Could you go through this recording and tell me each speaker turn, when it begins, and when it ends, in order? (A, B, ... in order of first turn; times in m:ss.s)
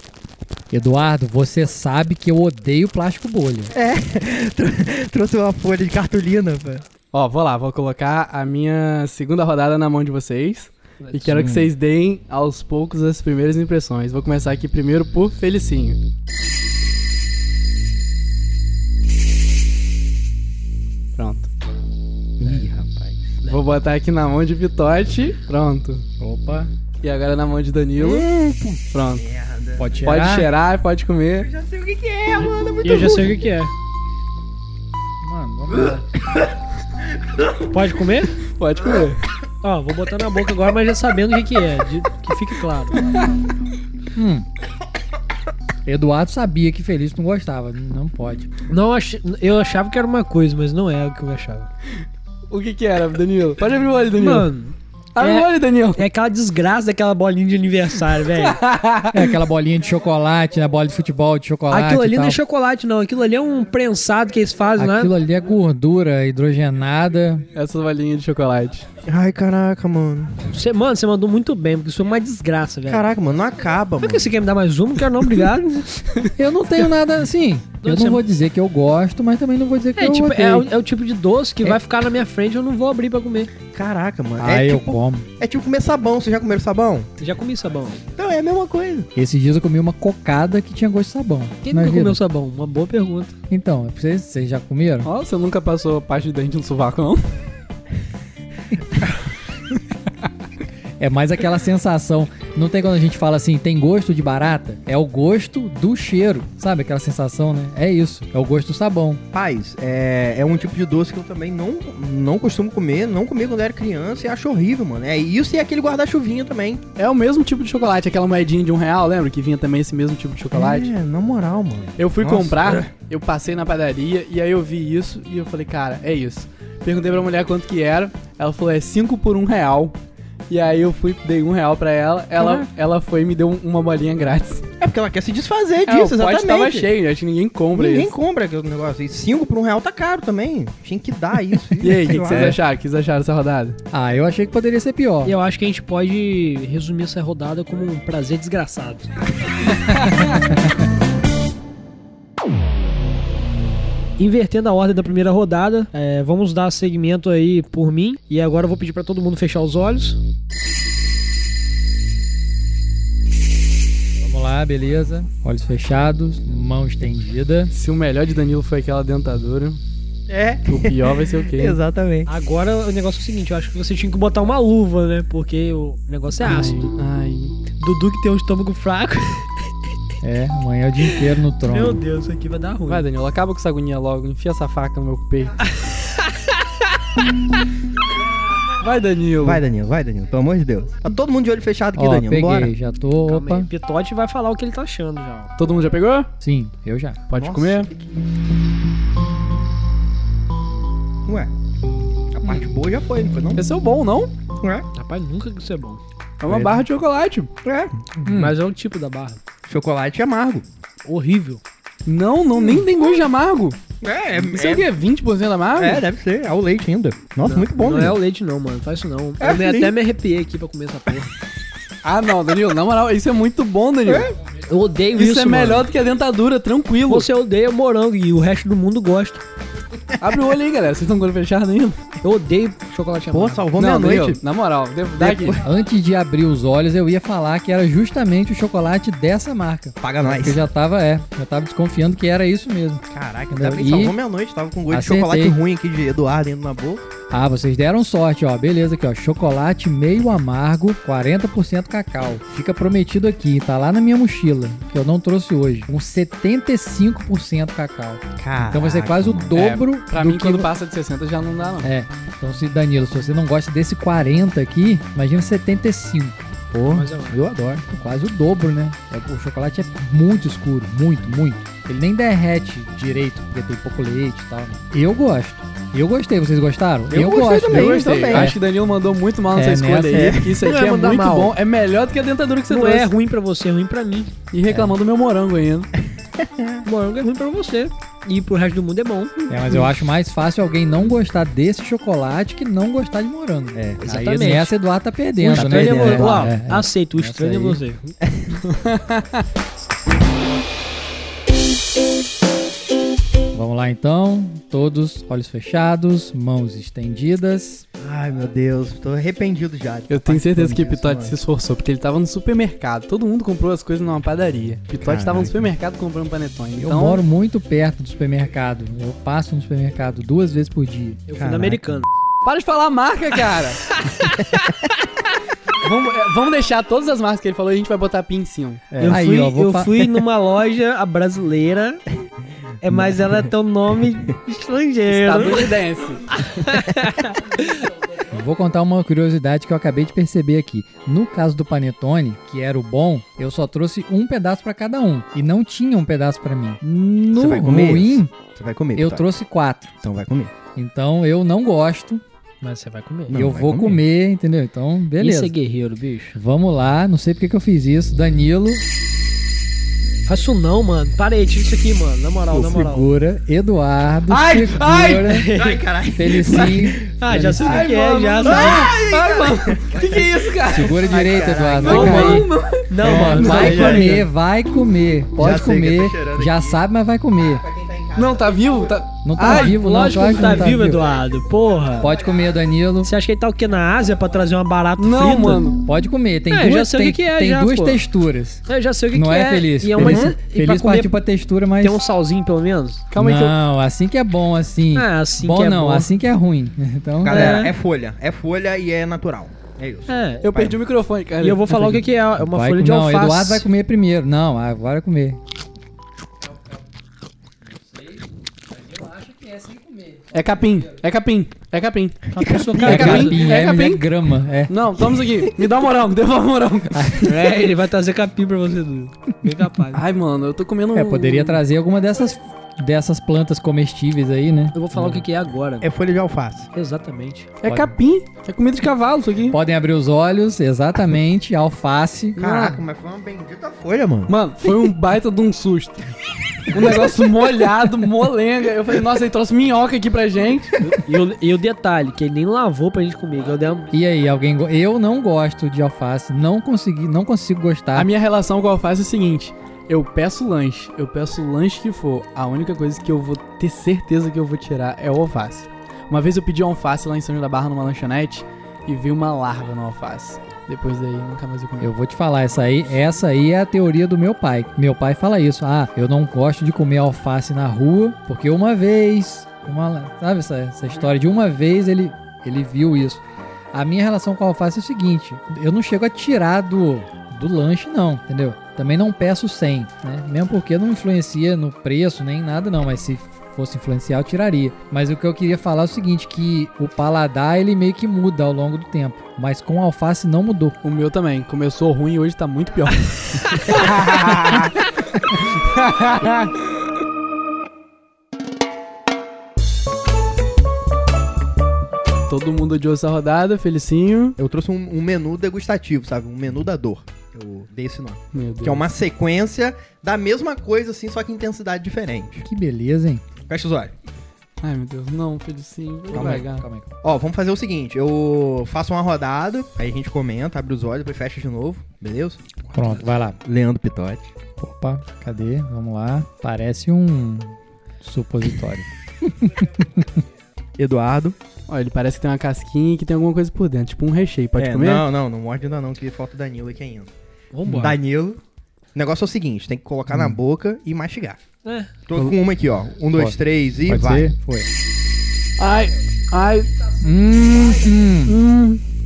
0:00.7-0:03.7 A
0:03.7-0:06.8 B
0:07.1-0:16.0 C
0:11.3-0:11.7 A
0:21.2-0:21.5 C
0:22.4-0:23.4 B
0:23.5-0:26.0 C
0:26.2-0:26.7 A
0:27.0-0:28.3 C
0:28.0-0:30.1 B
0:28.9-0:29.2 C
0:29.8-0:30.5 A
0:30.0-0:31.5 C
0:31.4-0:33.4 B
0:32.8-0:33.7 D
0:35.2-0:36.1 A
0:37.7-0:38.3 D
0:38.5-0:39.2 C
0:39.6-0:43.0 D
0:44.1-0:44.4 A
0:45.8-0:48.5 A
0:48.7-0:51.7 D
0:52.5-0:54.5 C
0:54.2-0:58.6 D
0:55.1-0:56.0 C
0:58.4-0:59.4 C
0:59.1-1:02.4 A
1:01.7-1:05.1 D
1:04.8-1:07.4 A
1:07.5-1:08.9 C
1:09.0-1:10.4 B
1:10.5-1:13.1 D
1:12.9-1:14.3 B
1:14.0-1:16.0 D
1:16.4-1:20.7 A
1:17.8-1:18.2 D
1:20.0-1:23.5 D
1:23.7-1:27.1 B
1:24.4-1:25.3 A
1:27.2-1:28.0 D
1:28.1-1:29.1 B
1:29.1-1:32.2 A
1:31.6-1:33.4 D
1:33.5-1:35.1 A
1:35.0-1:37.2 C
1:41.0-1:49.2 A
1:49.3-1:56.8 B
1:57.0-2:00.9 C
2:00.5-2:02.9 B
2:02.0-2:10.0 C
2:10.5-2:14.6 C
2:12.4-2:12.6 B
2:14.8-2:16.9 B
2:15.8-2:18.1 C
2:17.7-2:22.6 B
2:21.8-2:23.8 C
2:23.9-2:25.4 A
2:25.2-2:29.1 D
2:30.2-2:30.5 A
2:34.2-2:40.2 D
2:44.2-2:47.7 A
2:47.7-2:49.8 C
2:50.3-2:52.3 B
2:50.7-2:51.8 C
2:52.3-2:56.9 D
2:56.4-2:57.6 C
2:57.8-2:59.5 D
3:00.2-3:02.0 A
3:01.6-3:03.0 D
3:02.9-3:05.7 C
3:08.8-3:09.6 C
3:09.4-3:12.7 B
3:11.9-3:13.7 A
3:13.2-3:15.5 D
3:15.6-3:16.3 C
3:16.4-3:17.2 A
3:17.3-3:17.9 C
3:17.3-3:18.1 B
3:21.2-3:21.5 B
3:22.3-3:23.6 B
3:23.6-3:24.3 C
3:24.6-3:24.8 B
3:24.9-3:26.0 D
3:26.4-3:27.5 C
3:26.5-3:26.7 B
3:27.6-3:28.3 B
3:28.2-3:28.5 A
3:28.2-3:29.4 D
3:29.6-3:30.6 B
3:31.0-3:31.6 D
3:32.0-3:33.8 C
3:32.6-3:32.8 B
3:34.0-3:34.9 B
3:34.4-3:36.0 C
3:35.8-3:38.2 B
3:37.4-3:41.3 D
3:39.4-3:39.9 B
3:42.0-3:44.3 C
3:44.1-3:44.3 B
3:44.7-3:45.9 D
3:45.1-3:47.3 C
3:47.1-3:49.4 D
3:50.2-3:52.0 C
3:52.2-3:53.6 D
3:53.3-3:54.4 B
3:53.8-3:55.6 C
3:55.2-3:55.7 B
3:55.6-4:04.2 A
4:00.0-4:00.6 B
4:03.1-4:07.1 B
4:04.9-4:05.6 A
4:07.3-4:20.7 A
4:18.4-4:19.8 B
4:19.5-4:21.9 C
4:21.8-4:38.6 A
4:26.7-4:27.5 B
4:26.8-4:27.4 D
4:37.1-4:38.5 B
4:37.6-4:43.1 C
4:39.5-4:40.4 A
4:40.1-4:40.6 B
4:40.6-4:41.5 D
4:42.7-4:44.3 D
4:44.5-4:45.9 C
4:44.7-4:44.9 A
4:46.4-4:46.8 B
4:46.8-4:49.5 D
4:49.5-4:57.8 A
4:53.7-4:54.0 B
4:54.0-4:54.8 D
4:55.4-4:58.2 D
4:55.5-4:56.5 B
4:58.2-4:58.6 B
4:58.7-4:59.4 C
5:03.5-5:07.8 A
5:08.0-5:11.4 B
5:10.1-5:17.2 C
5:15.0-5:15.7 B
5:16.8-5:21.2 A
5:21.3-5:22.1 D
5:21.4-5:21.8 B
5:22.4-5:23.8 C
5:24.2-5:24.7 B
5:25.8-5:28.9 C
5:28.9-5:29.2 B
5:29.0-5:32.0 D
5:29.0-5:30.1 A
5:32.8-5:35.7 D
5:35.1-5:36.3 C
5:36.3-5:37.8 D
5:38.3-5:48.3 A
5:47.3-5:49.3 B
5:49.0-5:49.9 A
5:50.0-5:50.5 B
5:50.7-5:52.2 A
5:52.6-5:53.4 D
5:53.3-5:54.0 B
5:53.3-5:55.5 A
5:55.2-5:56.4 D
5:56.4-5:58.8 A
6:00.3-6:03.1 D
6:02.5-6:05.5 A
6:04.3-6:05.4 C
6:05.3-6:05.8 D
6:05.5-6:07.1 B
6:06.1-6:07.9 A
6:07.2-6:08.9 D
6:07.4-6:11.0 C
6:08.4-6:12.4 B
6:10.7-6:12.5 A
6:11.8-6:14.2 C
6:11.8-6:14.2 D
6:13.0-6:17.6 A
6:13.1-6:14.2 B
6:15.4-6:16.8 B
6:17.4-6:19.0 B
6:18.2-6:20.9 C
6:19.2-6:21.0 A
6:19.5-6:22.1 D
6:22.0-6:23.1 A
6:23.0-6:25.7 D
6:25.0-6:25.8 C
6:25.8-6:32.0 A
6:26.5-6:28.0 D
6:28.7-6:31.1 D
6:31.8-6:33.0 D
6:33.1-6:33.6 C
6:33.2-6:37.6 A
6:34.9-6:36.1 D
6:37.2-6:40.8 B
6:37.2-6:37.7 D
6:40.1-6:40.4 D
6:40.4-6:42.0 C
6:41.4-6:43.7 D
6:42.4-6:45.4 A
6:48.7-6:50.3 A
6:50.3-6:54.0 C
6:52.3-6:53.4 D
6:52.4-6:53.0 B
6:52.8-6:54.7 A
6:54.7-6:57.2 C
6:56.9-6:57.5 A
6:57.2-7:00.0 D
6:59.9-7:01.6 C
7:00.9-7:05.2 A
7:04.7-7:05.9 D
7:05.8-7:06.7 B
7:06.7-7:07.5 D
7:07.6-7:09.6 C
7:07.6-7:07.9 A
7:09.5-7:12.7 A
7:12.4-7:14.3 B
7:12.4-7:12.7 C
7:14.3-7:16.1 C
7:16.7-7:20.8 C
7:20.8-7:23.9 D
7:23.9-7:28.1 A
7:27.9-7:41.9 C
7:41.8-8:10.8 A
8:10.8-8:14.8 C
8:15.5-8:16.5 C
8:22.3-8:24.4 C
8:24.4-8:32.4 B
8:28.3-8:28.9 C
8:32.4-8:33.2 A
8:33.4-8:33.9 B
8:34.6-8:36.7 C
8:36.1-8:36.9 A
8:36.1-8:36.4 B
8:37.0-8:44.3 B
8:42.7-8:43.4 A
8:44.6-8:48.9 A
8:49.4-8:49.9 A
8:50.8-8:51.4 B
8:51.7-8:55.0 C
8:54.6-8:57.1 B
8:57.5-8:58.0 D
8:57.6-8:57.9 A
8:57.7-8:58.4 B
8:58.9-9:01.4 B
9:00.1-9:00.4 A
9:01.6-9:01.9 D
9:02.0-9:04.3 B
9:03.1-9:04.7 A
9:05.6-9:06.7 C
9:07.0-9:08.4 A
9:08.2-9:08.8 C